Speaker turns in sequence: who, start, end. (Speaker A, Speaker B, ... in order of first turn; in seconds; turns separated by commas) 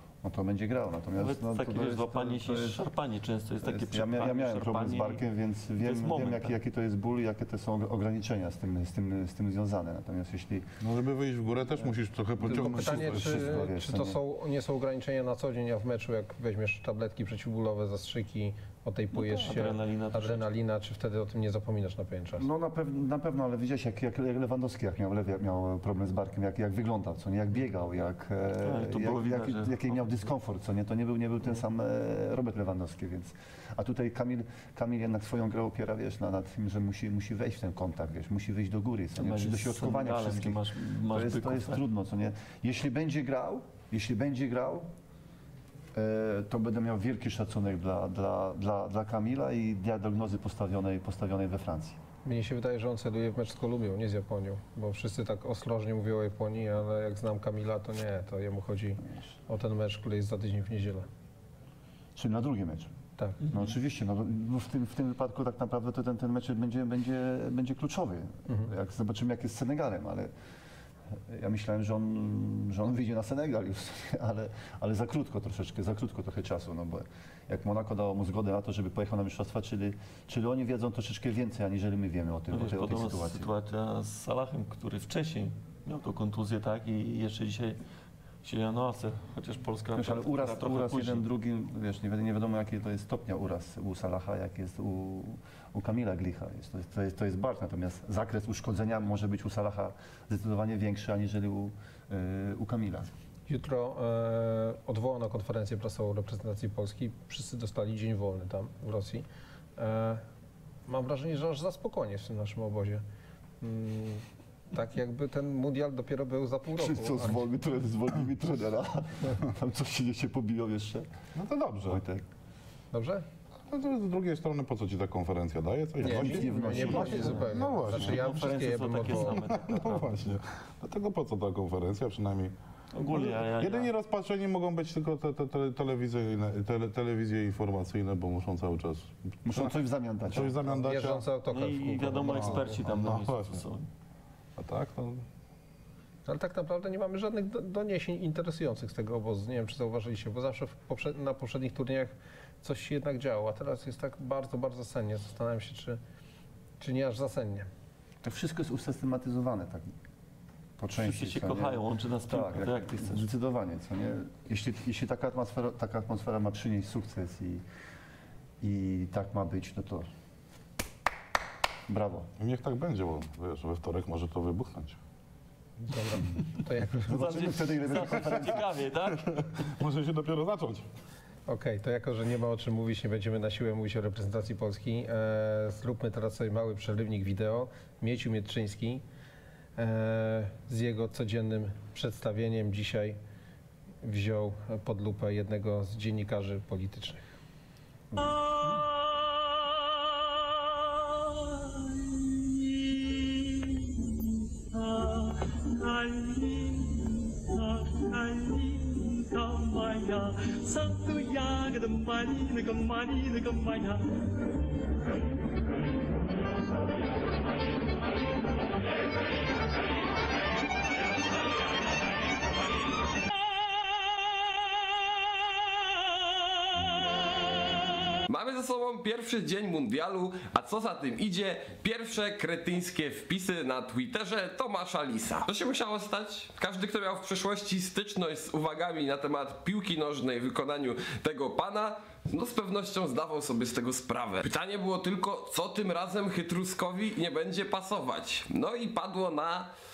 Speaker A: 0.2-2.8, Speaker B: 1.2-5.2, Speaker A: 3.6-10.8, Speaker B: 5.8-6.5, Speaker C: 10.8-13.7, Speaker A: 12.4-14.2, Speaker D: 12.4-22.5, Speaker B: 19.1-20.4, Speaker A: 22.4-44.9, Speaker B: 28.6-30.3, Speaker B: 39.2-41.8, Speaker A: 45.9-52.0, Speaker D: 52.2-61.1, Speaker A: 62.1-62.9, Speaker A: 63.5-70.3, Speaker A: 71.3-83.5, Speaker B: 82.5-87.8, Speaker B: 88.4-91.2, Speaker A: 90.0-103.1, Speaker D: 103.5-109.2, Speaker D: 109.8-110.2, Speaker D: 110.9-113.0, Speaker D: 113.6-117.4, Speaker A: 116.8-121.1, Speaker C: 121.3-122.0, Speaker A: 121.8-122.2, Speaker D: 122.9-123.2, Speaker C: 123.7-128.4, Speaker D: 126.0-129.4, Speaker A: 126.0-127.4, Speaker B: 126.6-130.2, Speaker C: 129.1-132.5, Speaker B: 132.9-133.9, Speaker C: 133.1-139.7, Speaker A: 139.4-140.6, Speaker C: 140.3-141.2, Speaker D: 140.6-142.8, Speaker B: 141.5-143.9, Speaker C: 142.4-143.6, Speaker C: 144.6-145.2, Speaker D: 146.3-156.0, Speaker D: 156.8-157.7, Speaker A: 158.2-159.9, Speaker A: 160.8-167.6, Speaker B: 160.9-163.2, Speaker A: 168.6-170.1, Speaker A: 171.9-172.3, Speaker C: 172.4-175.0, Speaker D: 175.9-177.2, Speaker B: 177.0-179.2, Speaker A: 177.1-178.7, Speaker C: 179.1-180.8, Speaker D: 181.5-189.0, Speaker D: 189.8-193.2, Speaker D: 194.0-197.2, Speaker A: 198.1-198.3, Speaker E: 198.2-214.6, Speaker F: 228.3-249.7